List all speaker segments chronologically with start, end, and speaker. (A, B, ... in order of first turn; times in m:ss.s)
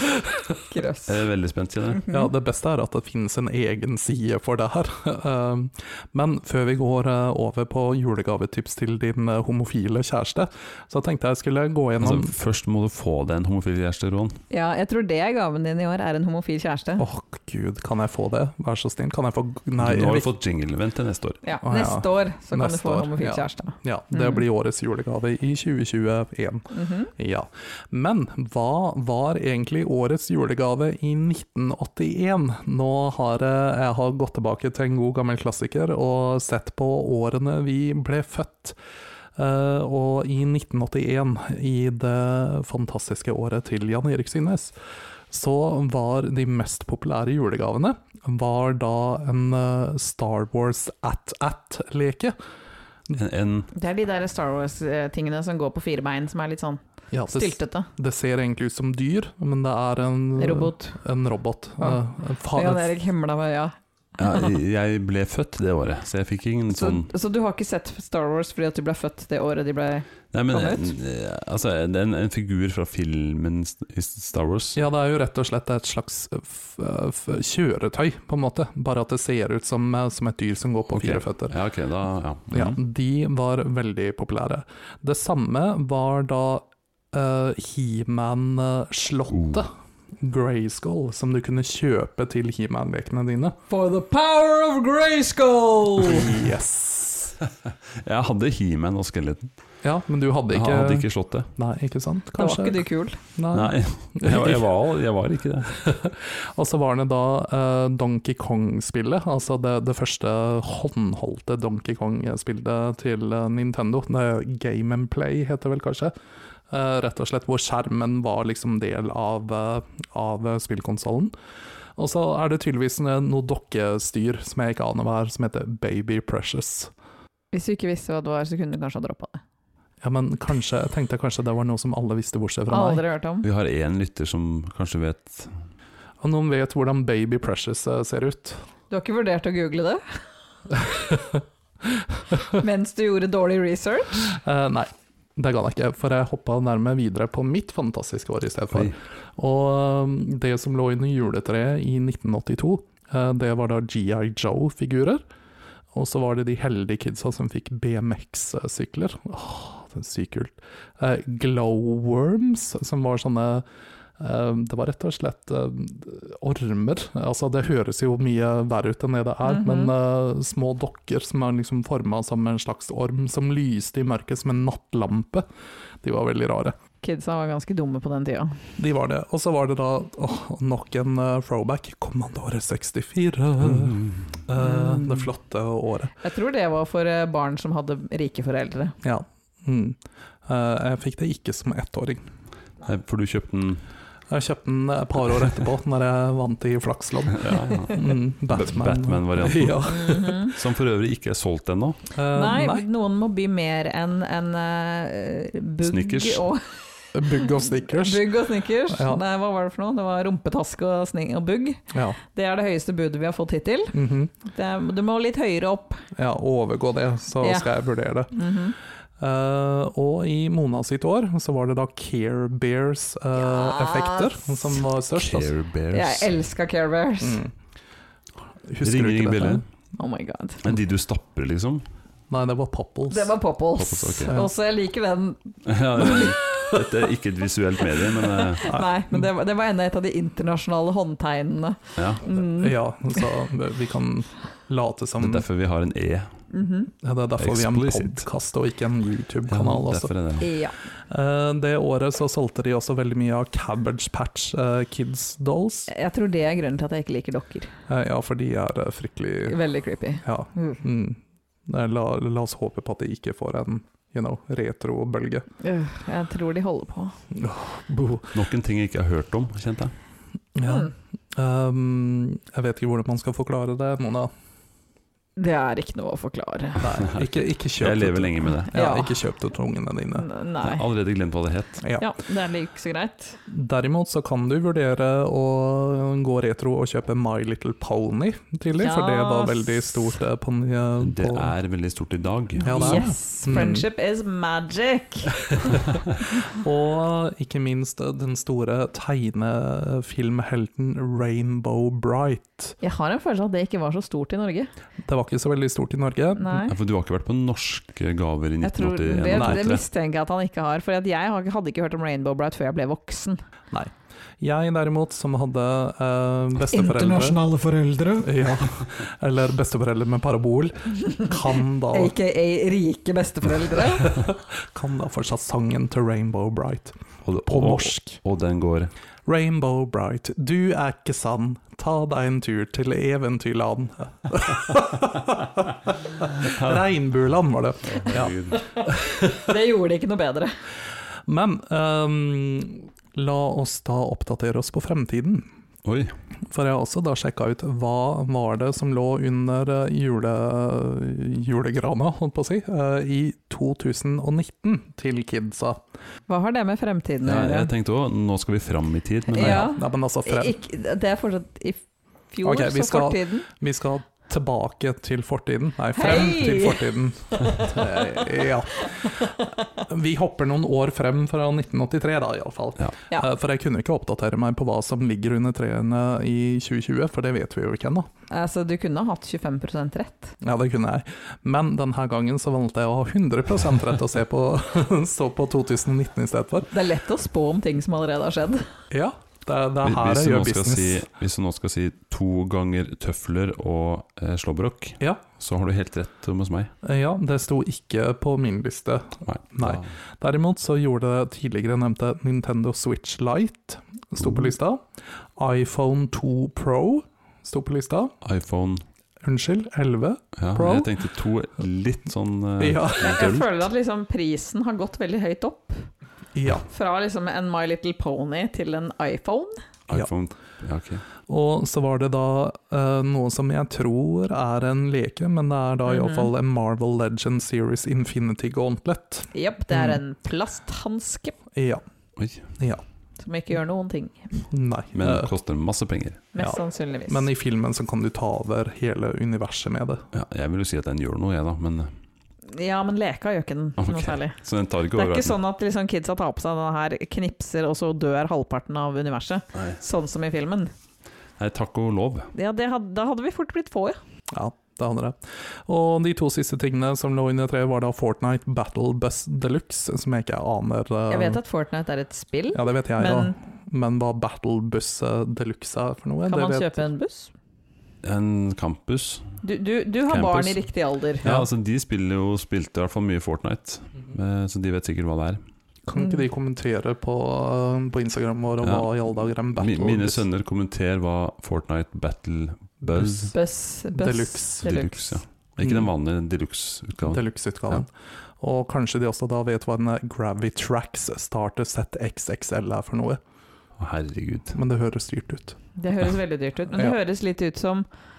0:00.7-0:01.2 A
0:01.1-0:02.0 B
0:02.0-0:02.3 A
0:02.1-0:12.3 C
0:12.0-0:14.4 B
0:14.5-0:17.0 A
0:17.0-0:20.3 C
0:19.8-0:21.4 B
0:21.4-0:24.4 A
0:21.6-0:38.8 C
0:26.7-0:27.1 A
0:39.4-0:44.7 C
0:45.3-0:52.4 C
0:53.1-0:53.7 B
0:53.7-0:57.9 A
0:57.1-1:03.0 C
1:00.4-1:00.8 A
1:02.5-1:04.5 A
1:04.2-1:07.1 B
1:06.7-1:10.9 A
1:10.3-1:14.8 B
1:14.8-1:21.6 C
1:20.9-1:22.8 B
1:22.5-1:33.6 C
1:29.3-1:29.6 B
1:33.7-1:36.3 A
1:36.0-1:37.4 C
1:37.7-1:39.5 B
1:39.8-1:44.7 C
1:40.5-1:41.5 B
1:42.4-1:43.2 A
1:43.5-1:45.8 B
1:45.7-1:56.1 C
1:56.7-2:01.3 C
2:02.0-2:06.9 C
2:07.5-2:09.4 A
2:10.0-2:13.0 C
2:12.7-2:13.5 A
2:13.4-2:15.6 B
2:16.2-2:18.6 C
2:18.9-2:20.2 A
2:20.7-2:21.4 C
2:21.9-2:22.4 C
2:22.5-2:24.3 A
2:24.3-2:35.2 C
2:35.9-2:43.6 C
2:44.2-2:55.4 C
2:49.4-2:49.9 A
2:56.0-2:56.8 C
2:57.0-2:58.6 A
2:58.8-3:06.1 C
3:03.6-3:04.4 B
3:04.6-3:05.3 A
3:06.2-3:09.0 A
3:09.0-3:12.3 C
3:12.8-3:13.8 B
3:14.3-3:20.4 C
3:17.3-3:22.0 B
3:19.9-3:20.6 A
3:22.2-3:22.9 C
3:22.3-3:36.0 A
3:25.8-3:26.5 B
3:27.1-3:29.2 C
3:31.9-3:32.2 C
3:33.9-3:34.3 C
3:36.2-3:38.3 C
3:37.4-3:37.7 A
3:38.3-3:38.8 A
3:39.2-3:45.5 C
3:43.4-3:44.8 A
3:45.2-3:46.3 B
3:45.9-3:47.4 A
3:47.2-3:47.5 C
3:48.7-3:49.6 C
3:48.8-3:49.6 B
3:50.0-3:50.6 A
3:50.6-3:51.8 B
3:52.3-3:53.3 C
3:53.1-3:55.4 A
3:53.8-3:54.4 B
3:55.7-3:58.7 B
3:56.0-3:56.7 A
3:58.4-4:03.2 A
3:58.7-3:59.3 C
4:02.0-4:02.2 B
4:02.4-4:05.4 C
4:05.2-4:06.3 B
4:06.5-4:06.9 A
4:07.0-4:10.1 C
4:07.4-4:08.2 B
4:09.5-4:10.5 B
4:10.4-4:10.8 A
4:11.1-4:15.9 C
4:15.9-4:17.7 A
4:17.9-4:19.6 C
4:19.5-4:20.8 A
4:20.2-4:25.5 C
4:25.6-4:27.2 A
4:27.3-4:28.3 C
4:28.3-4:29.9 B
4:30.6-4:34.3 C
4:30.6-4:30.9 A
4:35.4-4:36.9 A
4:36.8-4:40.3 C
4:37.1-4:38.7 B
4:38.7-4:39.2 A
4:40.2-4:40.9 A
4:40.6-4:41.8 B
4:41.8-4:42.1 C
4:42.0-4:43.4 A
4:43.5-4:51.5 C
4:48.8-4:50.1 A
4:51.0-4:53.0 B
4:52.6-4:53.9 C
4:52.6-4:55.6 A
4:56.4-5:02.8 C
5:02.8-5:04.7 A
5:05.0-5:06.6 C
5:06.4-5:06.7 A
5:06.7-5:09.8 B
5:08.6-5:13.4 A
5:09.3-5:09.7 C
5:13.7-5:17.4 C
5:16.7-5:18.3 A
5:18.2-5:22.1 C
5:21.9-5:24.2 A
5:24.0-5:28.2 C
5:27.2-5:28.9 B
5:29.3-5:39.5 C
5:36.4-5:36.8 B
5:37.8-5:38.6 B
5:39.2-5:40.5 A
5:41.3-5:45.5 C
5:45.8-5:46.1 B
5:46.5-5:55.8 C
5:56.3-5:57.7 A
5:57.2-5:59.7 B
5:59.3-6:03.5 A
5:59.4-6:00.6 C
6:02.4-6:18.1 C
6:06.0-6:07.0 A
6:18.3-6:20.3 A
6:20.4-6:26.7 C
6:26.7-6:28.7 A
6:28.9-6:31.0 C
6:29.8-6:36.7 B
6:36.8-6:48.2 C
6:39.3-6:39.9 B
6:48.2-6:48.8 B
6:49.2-6:50.9 C
6:50.4-6:53.6 B
6:52.6-6:53.3 C
6:53.0-6:55.9 A
6:56.4-6:56.7 C
6:56.7-6:59.6 A
6:59.9-7:01.1 B
7:01.3-7:10.0 C
7:05.9-7:06.3 A
7:09.3-7:11.4 A
7:11.5-7:11.8 C
7:12.2-7:12.5 B
7:13.2-7:14.4 A
7:14.5-7:15.3 C
7:15.0-7:16.3 B
7:16.3-7:17.3 A
7:16.4-7:20.1 C
7:20.1-7:21.9 B
7:22.5-7:24.4 A
7:23.8-7:25.4 B
7:24.9-7:30.7 A
7:31.4-7:32.3 B
7:32.3-7:34.0 A
7:34.3-7:41.4 C
7:41.1-7:43.4 A
7:42.5-7:46.8 C
7:46.3-7:47.3 A
7:48.0-7:49.4 B
7:49.4-7:51.4 A
7:50.1-7:50.6 B
7:51.2-7:55.4 B
7:55.9-8:00.2 C
7:56.0-7:56.2 A
7:58.6-7:58.9 B
7:59.5-8:03.3 B
8:03.3-8:05.2 A
8:03.9-8:04.8 C
8:04.6-8:07.2 B
8:05.6-8:05.9 C
8:07.0-8:13.2 C
8:13.8-8:14.6 B
8:14.5-8:15.6 C
8:15.8-8:17.9 A